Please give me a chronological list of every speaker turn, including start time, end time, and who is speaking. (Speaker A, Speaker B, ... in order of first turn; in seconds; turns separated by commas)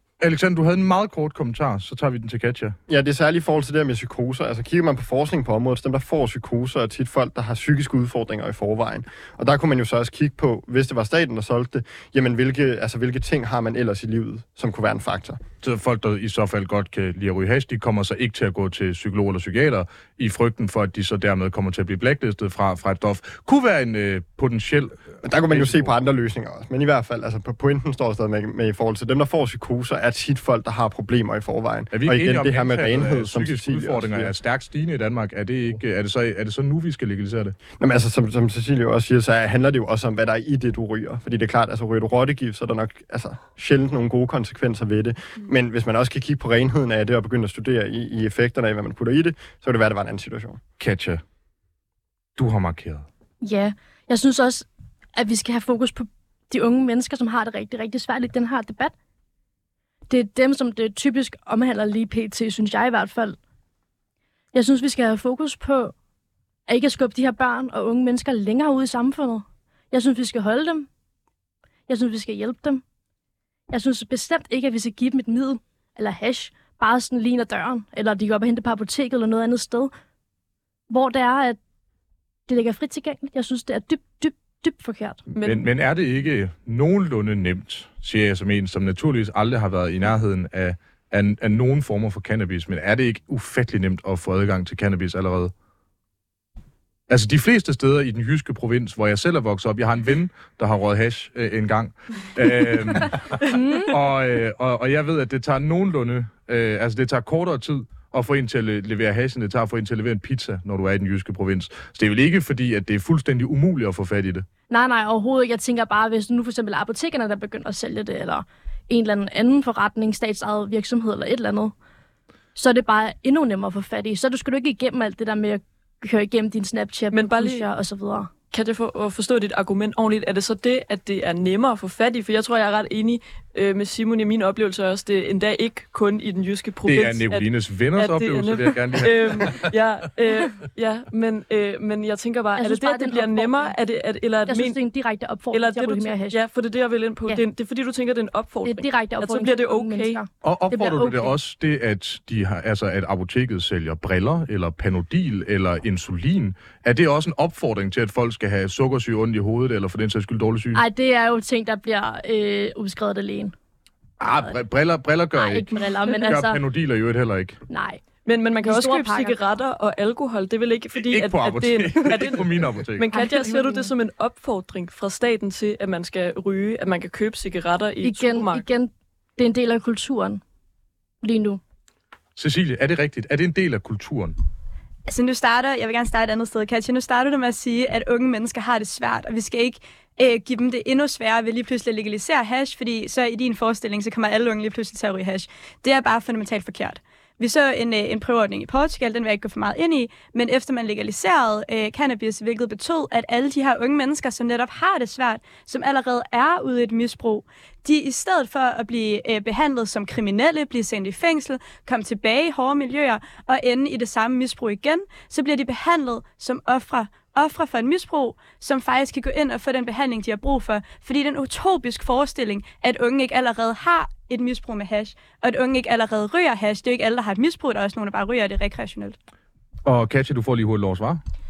Speaker A: 0.2-2.7, Speaker B: 2.9-15.4, Speaker A: 15.6-25.9, Speaker B: 25.2-34.3, Speaker A: 31.9-37.6, Speaker B: 37.8-50.6, Speaker A: 50.8-51.2, Speaker A: 52.4-53.0, Speaker C: 53.4-58.9, Speaker C: 60.1-63.4, Speaker C: 64.5-65.9, Speaker C: 66.7-70.9, Speaker C: 71.9-72.8, Speaker C: 73.7-79.9, Speaker C: 80.9-81.6, Speaker C: 82.5-85.2, Speaker D: 85.3-85.7, Speaker A: 85.4-95.5, Speaker A: 97.1-114.5, Speaker C: 103.4-103.9, Speaker C: 114.7-121.7, Speaker C: 122.5-128.3, Speaker D: 127.1-127.7, Speaker D: 128.5-144.8, Speaker A: 136.9-139.6, Speaker C: 142.6-143.7, Speaker C: 144.5-146.4, Speaker D: 145.5-150.2, Speaker C: 148.6-151.3, Speaker A: 150.4-160.8, Speaker C: 160.7-163.5, Speaker A: 164.2-167.6, Speaker C: 165.3-166.6, Speaker C: 167.7-168.0, Speaker D: 168.2-178.7, Speaker C: 168.6-169.4, Speaker A: 171.0-173.1, Speaker C: 173.1-173.9, Speaker C: 178.0-180.4, Speaker C: 181.2-181.6, Speaker A: 182.3-184.3, Speaker E: 185.1-229.2, Speaker A: 229.8-231.2